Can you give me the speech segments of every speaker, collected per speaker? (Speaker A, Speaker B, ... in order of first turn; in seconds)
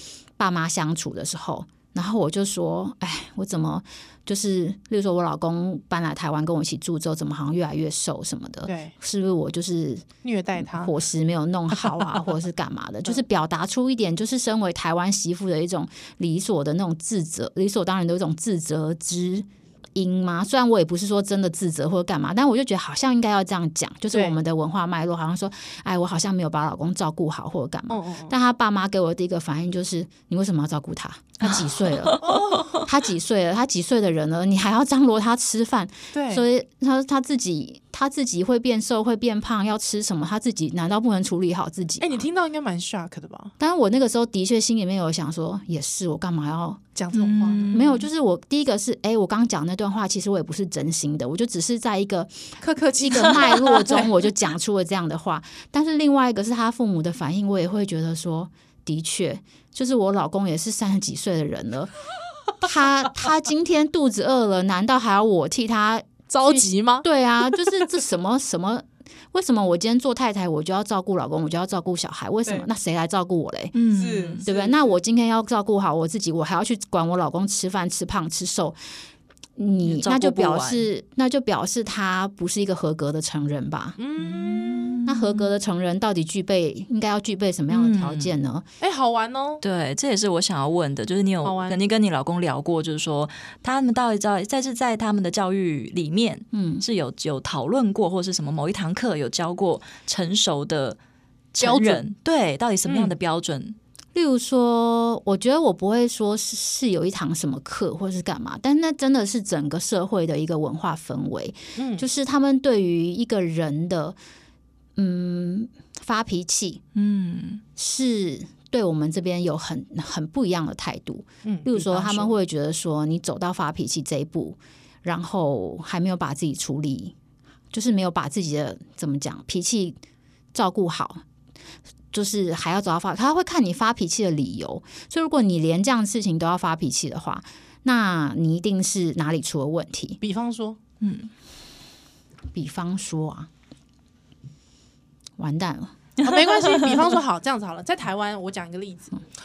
Speaker A: 0.4-10.1, 10.6-42.2, 43.6-46.8, 47.7-61.9, 62.6-73.8, 74.4-78.8, 79.6-84.0, 85.1-88.7, 96.5-96.8, 104.1-114.2, 115.0-116.8, 117.8-127.2, 127.7-130.0, 130.5-131.2, 132.1-140.2, 142.5-143.5, 145.4-145.9
Speaker B: 8.7-8.9, 10.2-10.9, 24.1-24.4, 27.9-28.4, 32.2-32.9, 36.1-36.5, 42.0-43.5, 47.0-47.8, 52.6-54.1, 66.3-67.1, 73.9-74.9, 84.0-85.0, 88.8-89.6, 91.4-91.8, 101.6-102.0, 102.8-103.2, 111.8-112.1, 121.4-122.3, 140.2-140.8, 146.2-149.2
Speaker C: 31.5-32.2, 47.1-48.0, 73.8-74.4, 79.8-80.9, 84.2-85.5, 87.7-88.3, 89.6-101.0, 101.5-103.8, 117.0-117.6, 141.0-141.3